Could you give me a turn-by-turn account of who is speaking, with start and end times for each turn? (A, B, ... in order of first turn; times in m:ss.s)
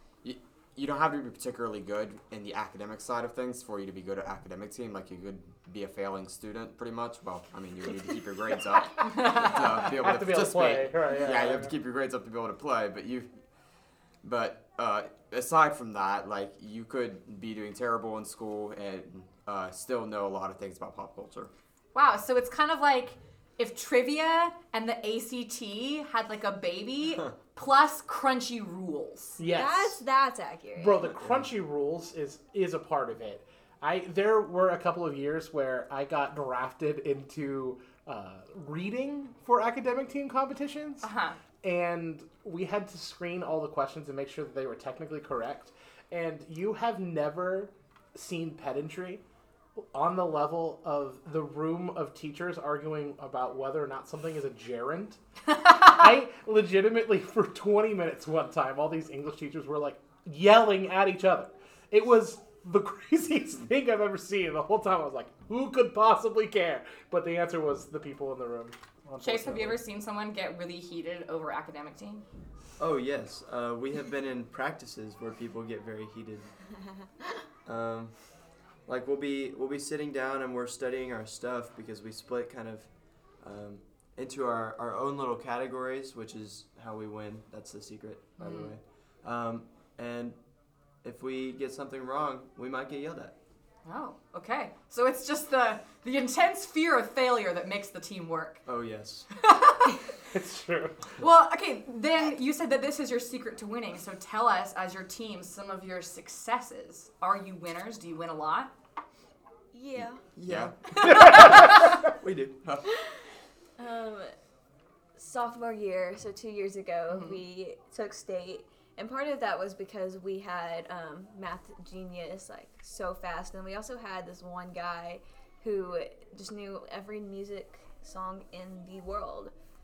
0:00.2-0:13.3 A
0:09.1-0:09.5 B
0:09.2-0:11.7 C
0:14.2-0:21.5 A
0:21.9-0:29.4 B
0:29.4-0:30.0 C
0:29.5-0:31.1 D
0:30.8-0:41.1 C
0:41.0-0:41.4 B
0:41.6-0:49.2 C
0:49.8-0:55.2 C
0:55.6-0:55.9 B
0:55.7-1:09.8 C
1:09.2-1:12.2 B
1:12.8-1:16.5 E
1:17.6-1:18.1 E
1:18.8-1:30.4 E
1:28.4-1:28.7 B
1:31.0-1:33.3 E
1:33.8-1:38.6 B
1:38.6-1:39.3 E
1:39.4-1:40.0 B
1:40.3-1:41.1 C
1:41.2-1:48.7 B
1:49.7-1:50.2 D
1:50.4-1:52.6 E
1:50.4-1:51.8 A
1:51.0-1:51.9 B
1:53.8-1:54.3 D
1:55.2-2:09.5 D
1:57.1-1:57.4 B